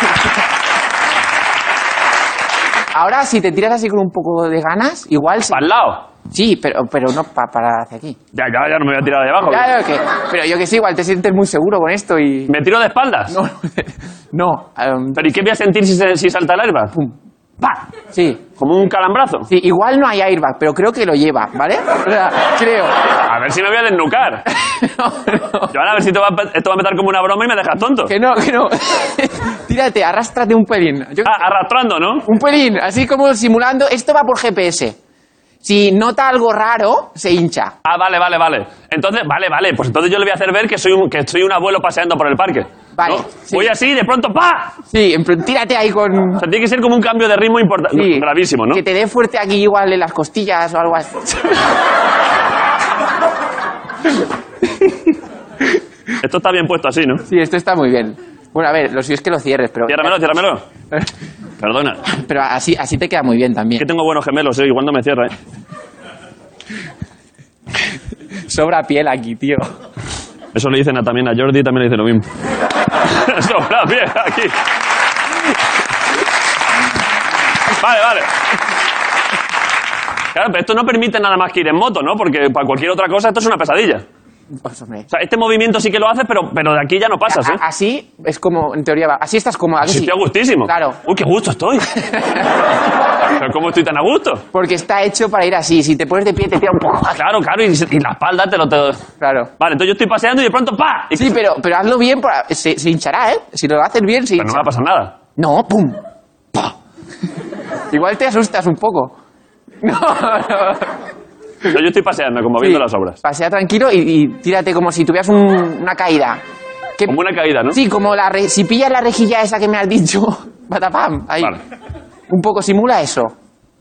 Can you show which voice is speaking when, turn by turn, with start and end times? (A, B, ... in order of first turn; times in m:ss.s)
0:02.9-0:05.6 A
0:05.5-0:06.0 B
0:06.3-0:08.2 A
0:08.3-0:09.7 B
0:09.4-0:12.5 A
0:12.5-0:13.3 B
0:13.3-0:15.4 A
0:15.2-0:16.9 B
0:17.6-0:17.9 B
0:18.1-0:18.4 A
0:18.6-0:19.5 B
0:19.5-0:22.9 A
0:23.2-0:24.4 B
0:24.5-0:25.7 A
0:25.7-0:28.1 B
0:28.0-0:31.5 A
0:31.2-0:32.2 B
0:32.2-0:35.0 A
0:35.6-0:37.7 A
0:37.8-0:44.8 B
0:43.0-0:43.7 A
0:44.9-0:46.4 A
0:46.4-0:48.8 B
0:47.9-0:51.6 A
0:56.2-0:57.2 B
0:57.2-1:00.2 A
0:59.9-1:00.6 B
1:01.6-1:02.0 B
1:02.1-1:03.8 A
1:03.8-1:05.3 B
1:08.4-1:09.7 A
1:10.5-1:12.3 B
1:13.0-1:14.6 B
1:17.7-1:18.3 B
1:20.3-1:24.0 B
1:24.6-1:25.1 A
1:25.1-1:27.6 B
1:27.3-1:31.0 A
1:29.8-1:32.0 B
1:32.1-1:32.4 A
1:33.3-1:34.4 B
1:34.5-1:37.2 A
1:37.1-1:39.0 B
1:39.2-1:39.5 A
1:39.6-1:41.4 B
1:41.1-1:44.7 A
1:44.4-1:45.2 B
1:45.4-1:46.0 A
1:47.9-1:49.1 A
1:49.8-1:51.0 A
1:51.6-1:53.2 B
1:52.6-1:56.4 A
1:57.0-1:57.8 B
1:57.7-2:01.6 A
2:02.3-2:03.3 A